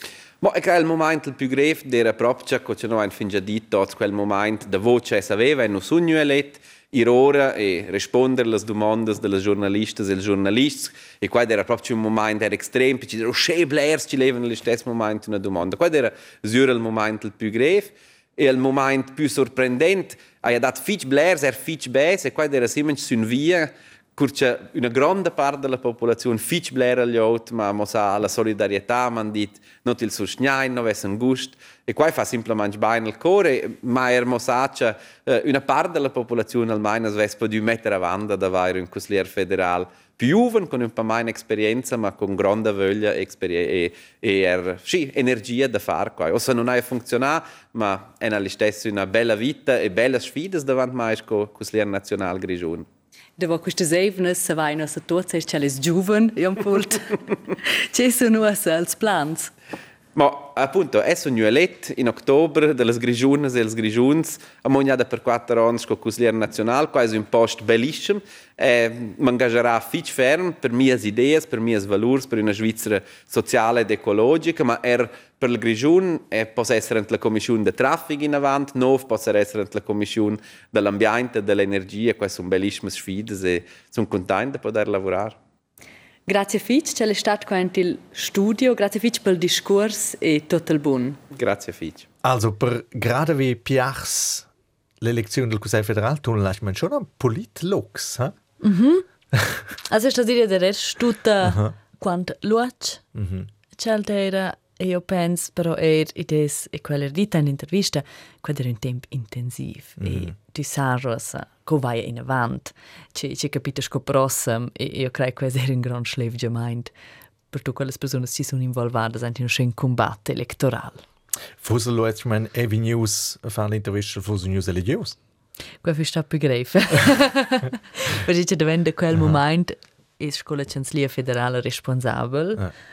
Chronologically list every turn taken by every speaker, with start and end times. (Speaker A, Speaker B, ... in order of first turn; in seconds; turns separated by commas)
Speaker A: 0.4-52.8, Speaker B: 53.4-59.5, Speaker A: 60.1-85.4, Speaker B: 86.3-91.2, Speaker A: 91.3-92.1, Speaker C: 92.2-94.5, Speaker C: 95.0-98.3, Speaker B: 98.6-99.0, Speaker C: 99.3-99.6, Speaker B: 99.9-103.0, Speaker C: 101.4-101.7, Speaker C: 103.1-103.5, Speaker B: 103.8-116.9, Speaker C: 110.0-110.3, Speaker B: 117.5-121.0, Speaker C: 121.6-125.2, Speaker B: 125.8-132.7